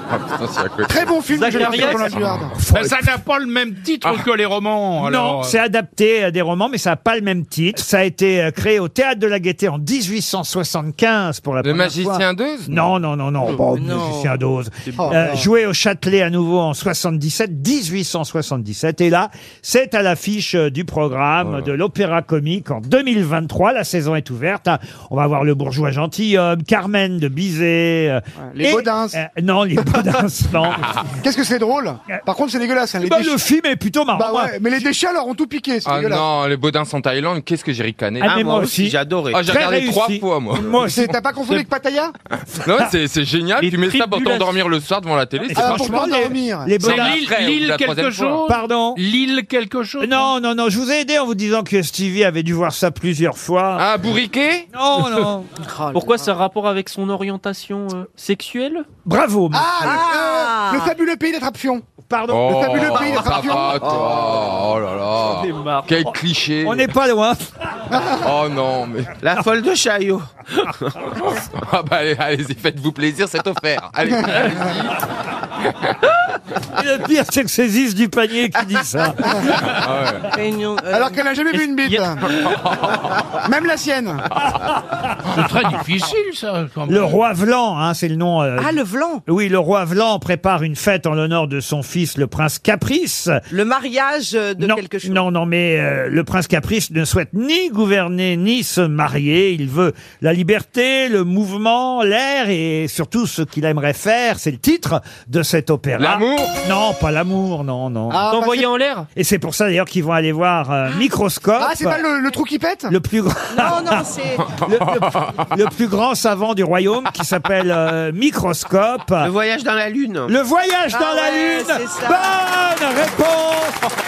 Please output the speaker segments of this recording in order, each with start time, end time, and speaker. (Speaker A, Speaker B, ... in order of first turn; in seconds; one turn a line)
Speaker A: 0.1-2.5
Speaker B: 0.8-2.6
Speaker C: 1.3-2.1
Speaker D: 2.6-3.1
Speaker E: 2.7-5.5
Speaker D: 5.0-30.9
Speaker A: 11.6-12.7
Speaker F: 13.7-14.4
Speaker C: 14.9-15.2
Speaker B: 15.0-15.5
Speaker A: 21.4-21.7
Speaker B: 28.4-29.2
Speaker B: 31.2-33.4
Speaker D: 33.0-34.6
Speaker B: 34.1-36.2
Speaker A: 35.9-38.4
Speaker D: 38.2-41.1
Speaker G: 38.2-39.4
Speaker A: 39.3-40.8
Speaker B: 40.8-42.1
Speaker A: 42.5-46.2
Speaker C: 43.6-44.6
Speaker D: 45.5-47.2
Speaker B: 45.5-46.8
Speaker A: 46.8-48.4
Speaker E: 46.8-50.3
Speaker D: 48.5-49.0
Speaker D: 50.0-53.9
Speaker A: 53.8-54.7
Speaker D: 54.7-55.5
Speaker F: 55.6-56.2
Speaker C: 55.9-58.9
Speaker D: 59.0-59.9
Speaker B: 59.5-61.9
Speaker F: 59.8-60.9
Speaker D: 62.1-63.3
Speaker A: 62.3-66.9
Speaker B: 62.5-64.1
Speaker C: 65.3-65.9
Speaker D: 66.6-67.4
Speaker B: 67.9-68.2
Speaker A: 68.2-69.2
Speaker G: 69.2-71.2
Speaker A: 71.2-75.0
Speaker A: 75.7-75.9
Speaker D: 76.7-79.5
Speaker A: 79.6-80.3
Speaker F: 80.3-81.2
Speaker B: 80.9-82.3
Speaker C: 81.5-82.2
Speaker A: 82.5-82.9
Speaker B: 83.4-84.3
Speaker E: 85.3-87.2
Speaker D: 86.9-93.4
Speaker F: 88.6-89.2
Speaker F: 93.5-95.2
Speaker D: 94.6-108.2
Speaker A: 106.0-106.5
Speaker B: 108.1-108.7
Speaker C: 108.3-109.1
Speaker D: 109.2-112.0
Speaker B: 111.6-112.9
Speaker D: 112.9-119.3
Speaker F: 113.5-114.5
Speaker A: 114.7-115.4
Speaker G: 119.2-120.3
Speaker D: 120.3-123.8
Speaker F: 120.9-122.3